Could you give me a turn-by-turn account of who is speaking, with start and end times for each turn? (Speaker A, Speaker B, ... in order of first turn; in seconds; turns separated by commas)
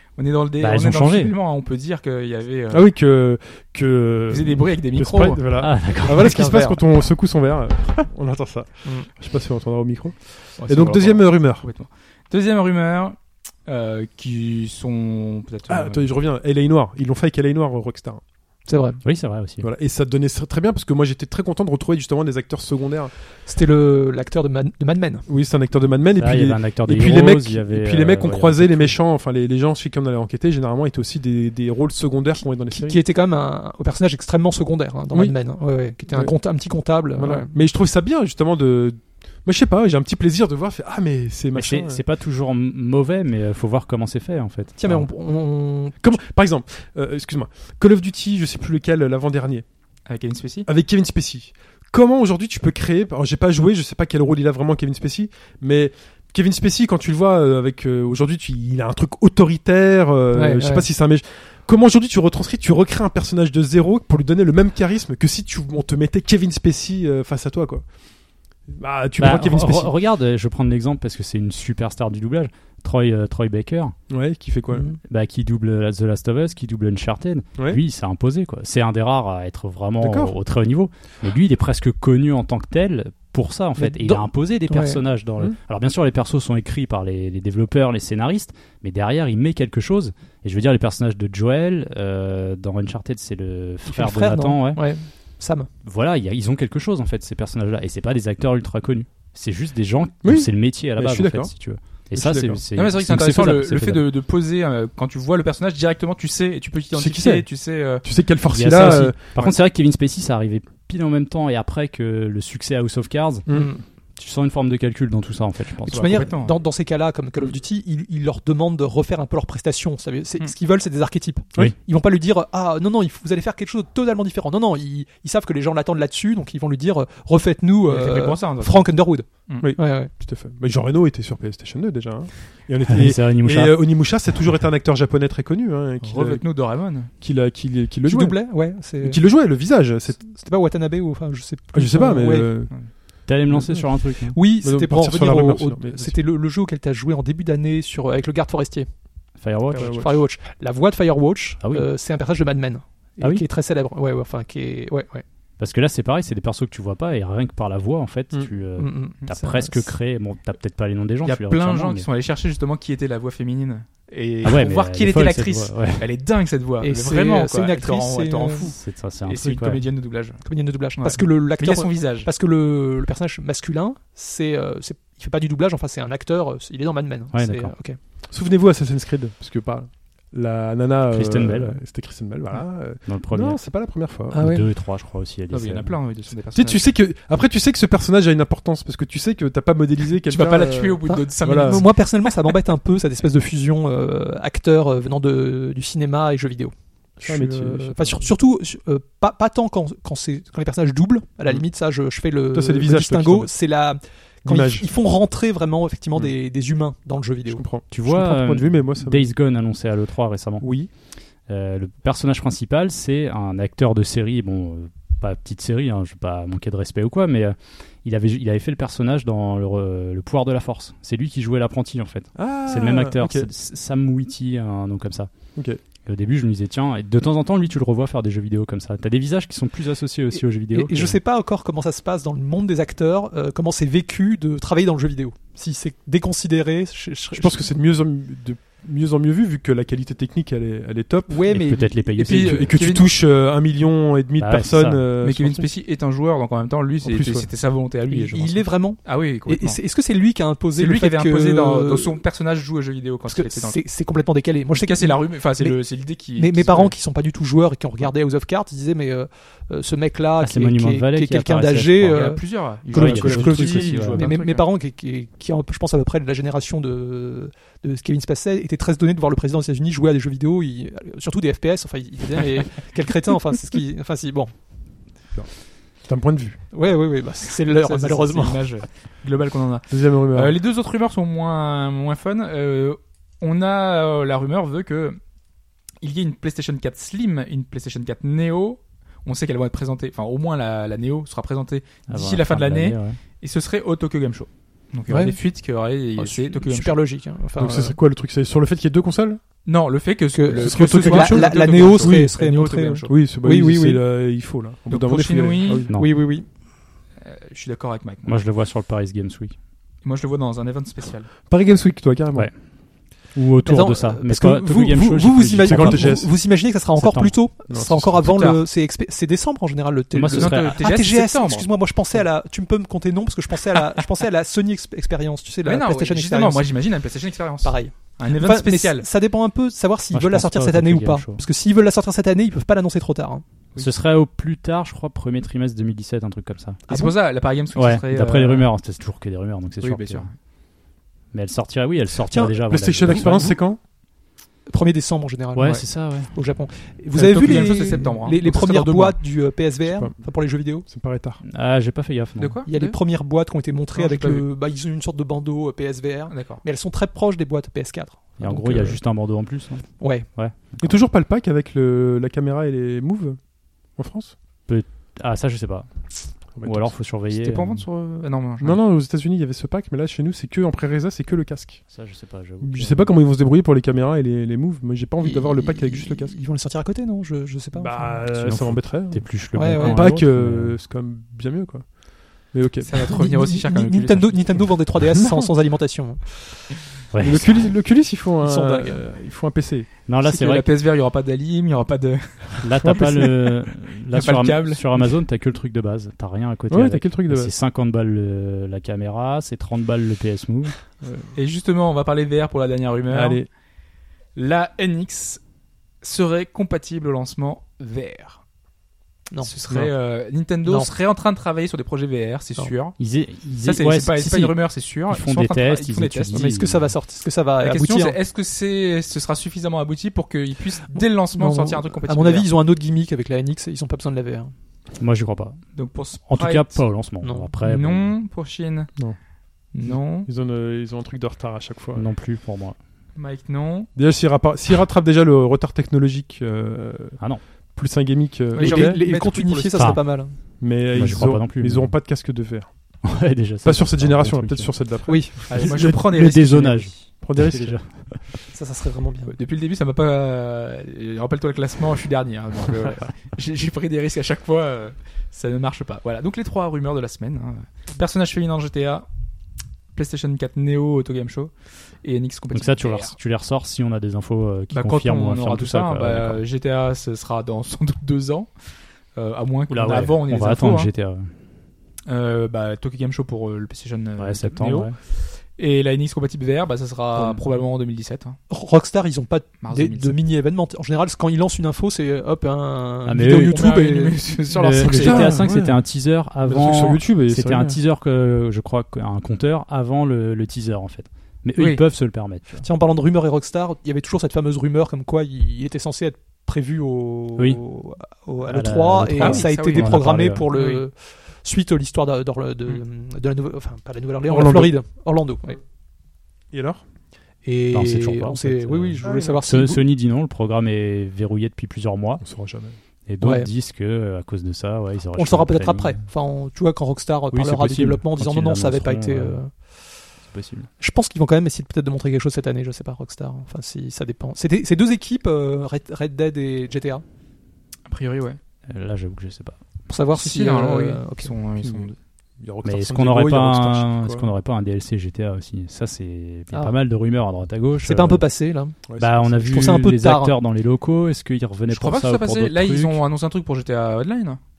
Speaker A: 0.2-2.9, Speaker B: 0.6-1.3, Speaker C: 2.7-11.7, Speaker A: 4.3-5.4, Speaker B: 5.5-6.8, Speaker A: 10.6-16.1, Speaker C: 15.7-18.2, Speaker D: 18.7-19.0, Speaker B: 19.0-19.7, Speaker C: 19.6-23.1, Speaker D: 23.4-25.2, Speaker C: 25.3-33.0, Speaker B: 26.2-28.9, Speaker D: 32.7-37.5, Speaker C: 37.2-42.0, Speaker B: 41.5-45.0, Speaker D: 44.8-46.2, Speaker C: 46.0-49.6, Speaker A: 50.1-50.7, Speaker C: 50.6-67.8, Speaker D: 60.3-60.9, Speaker C: 68.7-69.9, Speaker B: 69.2-74.0, Speaker C: 74.1-74.9, Speaker D: 74.7-75.0, Speaker B: 75.0-94.8, Speaker C: 80.0-80.3, Speaker D: 83.8-85.0, Speaker D: 93.8-95.7, Speaker B: 95.8-104.0, Speaker C: 100.2-101.5, Speaker C: 102.1-102.6, Speaker A: 102.7-108.0, Speaker C: 106.9-107.5, Speaker C: 108.0-109.5, Speaker B: 108.5-113.5, Speaker C: 113.5-113.7, Speaker D: 113.5-113.8, Speaker B: 114.2-116.2, Speaker D: 115.8-130.1, Speaker A: 115.9-116.6, Speaker A: 127.8-129.7, Speaker C: 129.6-136.4, Speaker B: 132.9-133.8, Speaker A: 136.0-137.1, Speaker C: 137.2-138.4, Speaker D: 138.1-139.2, Speaker C: 139.0-140.3, Speaker D: 140.2-142.5, Speaker C: 141.7-142.7, Speaker B: 143.2-144.4, Speaker C: 143.5-143.8, Speaker D: 144.3-148.9, Speaker C: 144.6-146.2, Speaker B: 149.4-150.0, Speaker D: 149.7-155.2, Speaker C: 149.8-150.1, Speaker B: 151.6-151.9, Speaker B: 155.6-162.1, Speaker D: 158.8-159.9, Speaker A: 161.2-170.4, Speaker B: 164.4-166.1, Speaker D: 166.8-168.7, Speaker B: 168.8-169.8, Speaker D: 170.4-178.0, Speaker A: 171.0-172.3, Speaker B: 177.3-177.7, Speaker C: 178.3-184.4, Speaker B: 181.1-181.8, Speaker B: 183.1-183.6, Speaker D: 184.3-184.7, Speaker B: 184.3-186.0, Speaker A: 185.5-186.8, Speaker C: 186.5-191.8, Speaker A: 190.3-192.3, Speaker D: 191.0-207.6, Speaker C: 197.2-198.3, Speaker C: 202.5-203.5, Speaker C: 204.4-204.9, Speaker C: 207.5-209.3, Speaker B: 207.9-210.7, Speaker C: 210.6-210.9, Speaker B: 211.5-225.3, Speaker C: 222.3-223.5, Speaker B: 226.0-231.2, Speaker D: 230.3-237.6, Speaker C: 237.3-241.4, Speaker D: 241.3-242.2, Speaker B: 241.5-242.8, Speaker A: 242.2-243.1, Speaker C: 242.2-245.7, Speaker B: 244.4-245.0, Speaker A: 245.2-249.8, Speaker C: 247.0-247.5, Speaker D: 248.1-252.2, Speaker A: 250.8-253.8, Speaker D: 253.3-255.8, Speaker A: 254.7-256.9, Speaker D: 256.3-262.4, Speaker B: 260.4-262.4, Speaker A: 262.1-264.7, Speaker B: 262.9-264.3, Speaker C: 262.9-264.0, Speaker D: 262.9-274.5, Speaker C: 276.0-276.6, Speaker D: 276.7-278.6, Speaker A: 277.6-285.2, Speaker C: 279.9-280.5, Speaker A: 286.0-297.0, Speaker B: 292.1-293.2, Speaker D: 295.1-295.4, Speaker D: 296.2-298.0, Speaker C: 297.6-299.4, Speaker A: 299.6-303.1, Speaker D: 300.3-304.0, Speaker C: 300.6-302.3, Speaker C: 303.1-305.9, Speaker A: 304.9-305.9, Speaker B: 305.9-306.1, Speaker D: 305.9-306.4, Speaker A: 307.2-308.4, Speaker B: 308.2-309.5, Speaker A: 310.0-311.3, Speaker C: 311.5-312.5, Speaker B: 313.3-316.2, Speaker D: 313.6-326.7, Speaker C: 315.6-316.3, Speaker B: 317.0-317.3, Speaker C: 317.7-318.3, Speaker A: 318.2-318.6, Speaker B: 320.1-320.8, Speaker A: 320.3-321.7, Speaker A: 325.6-329.1, Speaker D: 327.6-333.4, Speaker B: 330.1-331.4, Speaker B: 333.8-336.8, Speaker D: 336.9-337.1, Speaker A: 336.9-338.7, Speaker B: 337.7-340.3, Speaker A: 339.8-340.3, Speaker B: 341.3-343.6, Speaker D: 342.3-343.3, Speaker C: 342.7-343.8, Speaker D: 344.7-350.9, Speaker B: 345.5-346.3, Speaker A: 347.1-349.2, Speaker C: 349.9-350.1, Speaker C: 350.9-351.4, Speaker B: 351.4-352.6, Speaker A: 352.4-352.9, Speaker D: 352.6-359.0, Speaker A: 353.9-354.4, Speaker A: 356.3-356.6, Speaker B: 358.4-360.9, Speaker D: 360.0-360.3, Speaker C: 360.8-363.4, Speaker C: 363.9-364.3, Speaker B: 364.7-366.1, Speaker C: 366.6-366.9, Speaker B: 366.6-367.8, Speaker A: 367.3-368.8, Speaker C: 368.6-371.8, Speaker B: 371.9-373.1, Speaker C: 372.6-376.3, Speaker D: 375.2-378.2, Speaker C: 377.7-381.9, Speaker B: 378.3-380.8, Speaker D: 379.5-380.1, Speaker C: 382.4-382.9, Speaker A: 382.8-384.8, Speaker D: 382.9-386.6, Speaker C: 385.1-385.5, Speaker B: 387.1-387.6, Speaker C: 387.2-389.9, Speaker D: 388.4-389.0, Speaker B: 390.1-390.6, Speaker A: 390.2-395.1, Speaker B: 392.6-400.7, Speaker C: 396.7-397.5, Speaker C: 401.0-401.3, Speaker A: 401.3-403.4, Speaker C: 403.1-403.5, Speaker A: 404.3-405.4, Speaker A: 406.0-408.4, Speaker A: 409.4-413.0, Speaker D: 410.6-410.9, Speaker B: 413.0-416.8, Speaker A: 413.6-416.4, Speaker D: 416.3-418.2, Speaker A: 417.6-422.5, Speaker D: 420.9-424.5, Speaker B: 425.0-425.6, Speaker A: 425.7-426.8, Speaker B: 426.3-428.1, Speaker D: 427.2-427.5, Speaker A: 427.6-428.9, Speaker A: 429.7-430.3, Speaker C: 429.8-432.0, Speaker B: 431.9-432.8, Speaker A: 433.1-433.9, Speaker C: 433.9-437.2, Speaker C: 437.7-439.0, Speaker A: 438.5-439.9, Speaker D: 438.6-440.3, Speaker B: 439.7-440.1, Speaker C: 440.6-443.0, Speaker B: 440.9-441.9, Speaker B: 443.0-444.7, Speaker C: 443.6-446.0, Speaker D: 445.1-445.5, Speaker A: 445.5-446.9, Speaker B: 445.5-448.2, Speaker C: 447.2-447.8, Speaker D: 448.5-449.4, Speaker A: 449.3-459.1, Speaker A: 459.9-463.1, Speaker B: 462.5-466.4, Speaker A: 464.7-468.5, Speaker A: 469.1-470.9, Speaker B: 469.7-471.3, Speaker A: 472.1-478.4, Speaker B: 474.2-474.9, Speaker D: 478.5-484.2, Speaker A: 479.6-480.2, Speaker B: 483.1-483.7, Speaker A: 483.3-485.4, Speaker B: 484.5-492.6, Speaker C: 484.8-485.8, Speaker C: 486.4-487.8, Speaker A: 491.6-491.8, Speaker D: 492.6-505.6, Speaker B: 498.5-500.5, Speaker A: 499.2-500.0, Speaker A: 500.5-500.8, Speaker C: 504.3-504.7, Speaker C: 506.5-506.8, Speaker D: 507.4-509.9, Speaker B: 507.7-512.2, Speaker C: 509.0-509.4, Speaker C: 512.2-512.8, Speaker B: 513.1-516.0, Speaker D: 513.2-513.5, Speaker D: 515.1-519.5, Speaker B: 517.3-519.4, Speaker B: 520.2-520.7, Speaker D: 520.8-527.0, Speaker A: 527.9-528.4, Speaker B: 528.7-529.6, Speaker D: 529.9-531.3, Speaker A: 530.1-532.0, Speaker C: 531.6-531.9, Speaker C: 532.4-534.3, Speaker B: 532.6-538.2, Speaker D: 537.8-538.8, Speaker C: 538.9-539.5, Speaker B: 539.0-543.0, Speaker D: 539.4-540.4, Speaker A: 541.7-544.4